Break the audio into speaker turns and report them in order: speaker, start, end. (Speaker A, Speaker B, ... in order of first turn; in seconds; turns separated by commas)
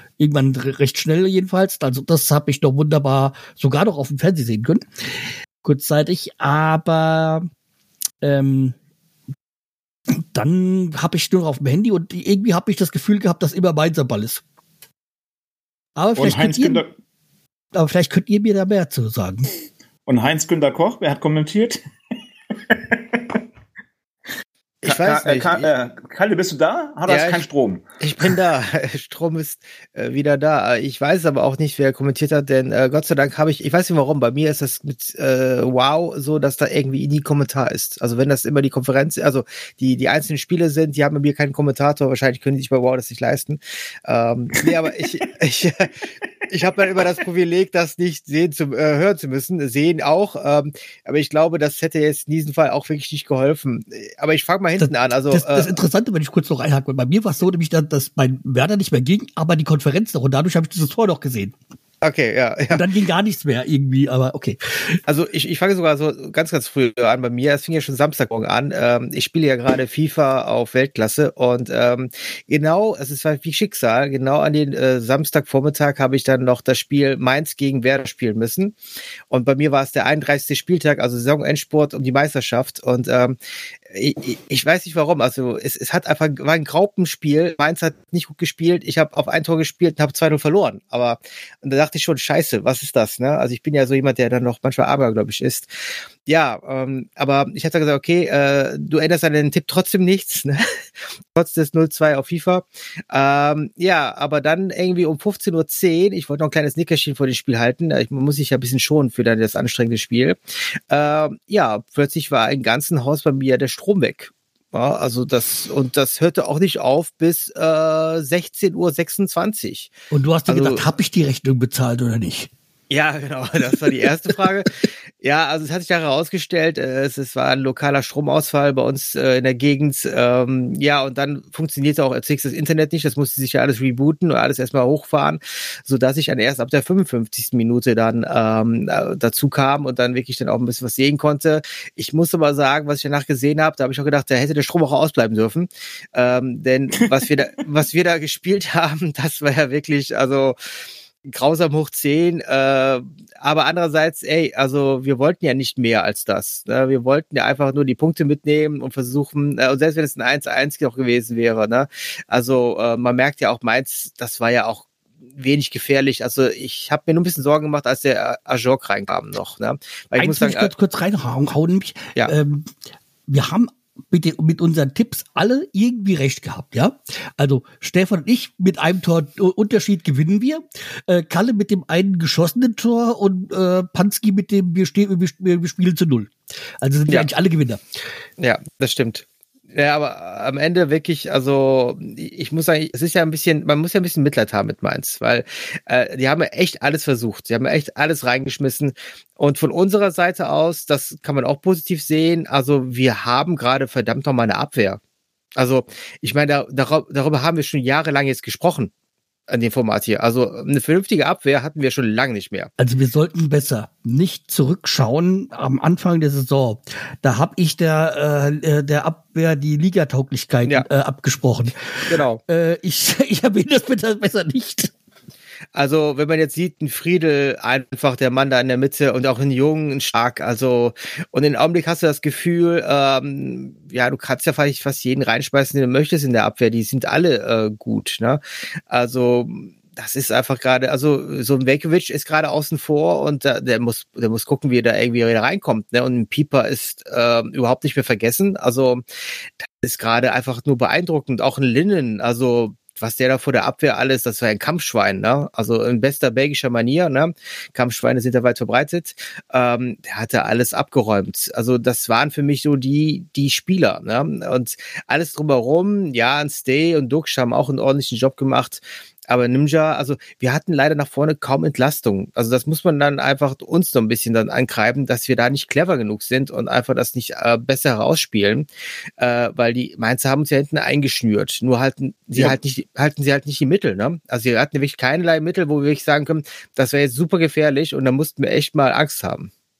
Speaker A: 0.2-5.1, Speaker A: 5.6-7.5, Speaker A: 8.2-8.7, Speaker A: 10.1-14.4, Speaker A: 15.9-16.8, Speaker B: 16.2-16.9, Speaker A: 17.7-19.5, Speaker B: 20.1-21.8, Speaker B: 22.7-23.4, Speaker C: 24.8-25.7, Speaker B: 24.8-27.8, Speaker C: 27.1-27.4, Speaker C: 28.0-45.9, Speaker C: 46.5-55.7, Speaker A: 54.8-61.5, Speaker C: 62.0-62.8, Speaker A: 62.7-65.0, Speaker C: 65.1-78.8, Speaker C: 79.3-83.4, Speaker C: 83.9-95.7, Speaker C: 96.2-100.6, Speaker C: 101.3-119.9, Speaker A: 120.1-122.5, Speaker C: 120.5-120.8, Speaker C: 122.9-124.7, Speaker C: 125.2-150.6, Speaker C: 151.2-170.7, Speaker A: 170.2-172.7, Speaker A: 173.3-187.8, Speaker C: 188.4-205.0, Speaker C: 205.6-208.9, Speaker C: 209.5-212.7, Speaker A: 212.8-224.9, Speaker C: 222.1-222.4, Speaker C: 225.7-249.0, Speaker C: 249.6-278.7, Speaker C: 279.2-289.5